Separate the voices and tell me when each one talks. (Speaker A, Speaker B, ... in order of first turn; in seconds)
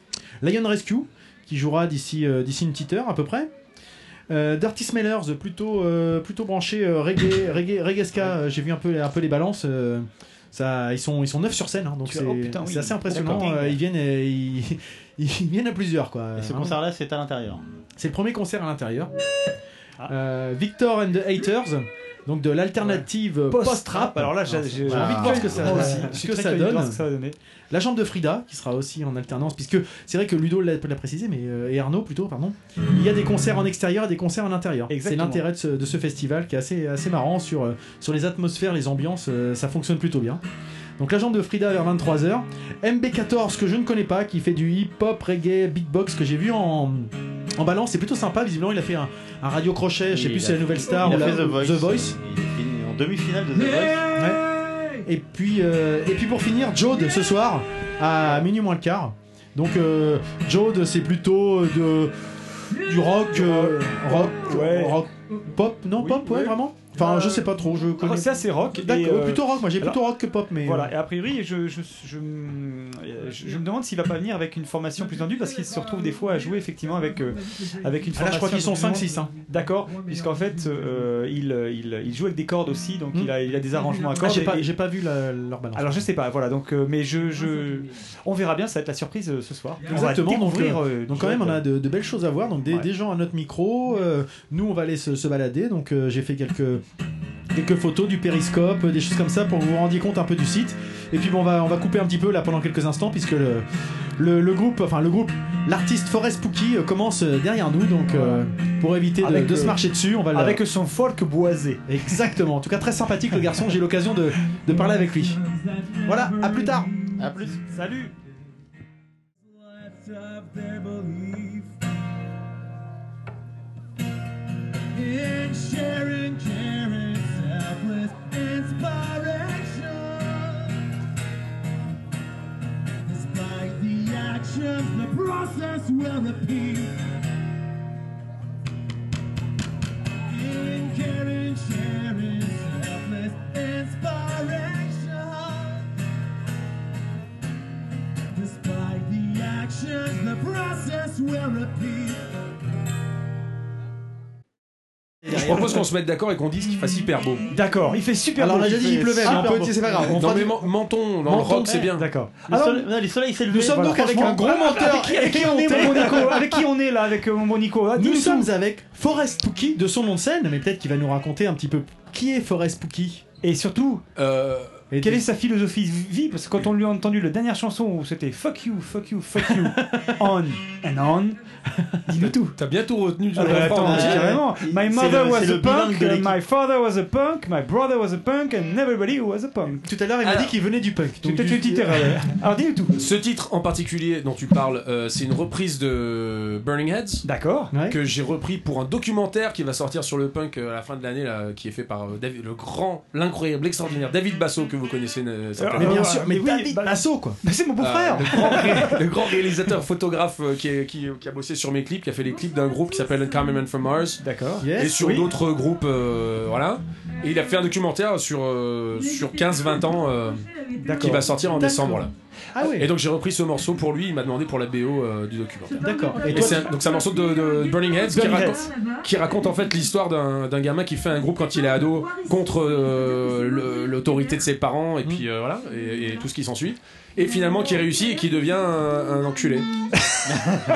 Speaker A: 0.4-3.5, 4.3-16.8, 18.0-19.1, 20.1-27.0, 27.7-40.4, 41.0-52.2, 54.1-54.4, 55.0-62.1, 62.8-70.9, 78.2-79.3, 84.1-85.9, 89.9-96.8, 97.5-103.7, 104.2-110.6, 111.9-115.4, 116.0-116.9, 155.2-155.8, 158.4-160.7, 161.3-161.9, 163.5-166.6, 167.9-173.2, 174.9-175.3, 179.4-180.1, 189.8-192.2, 197.7-198.0, 205.8-207.4, 214.6-215.0, 221.5-222.9, 225.8-226.7
Speaker B: 12.1-13.8, 22.8-27.4, 34.9-35.5, 63.4-65.0, 66.0-67.5, 68.0-70.0, 70.6-84.7, 85.8-91.7, 108.1-108.4, 109.2-109.8, 110.3-111.8, 117.6-118.1, 157.5-159.9, 161.9-162.8, 163.6-168.5, 173.4-174.0, 175.0-181.4, 182.1-182.6, 183.4-189.8, 191.2-192.9, 197.2-197.7, 205.6-209.0, 214.2-215.3, 220.8-221.2, 228.1-228.7
Speaker C: 16.4-17.6, 24.9-26.1, 50.1-54.2, 117.2-117.6, 159.2-159.8, 162.5-164.4, 183.8-186.4
Speaker D: 125.1-129.6, 134.0-135.5, 142.8-143.3, 148.4-151.9
Speaker E: 155.3-157.5, 160.0-162.1, 174.2-174.8, 182.6-184.4, 190.2-190.5, 193.0-197.2, 197.9-206.1, 207.8-214.2, 214.8-239.7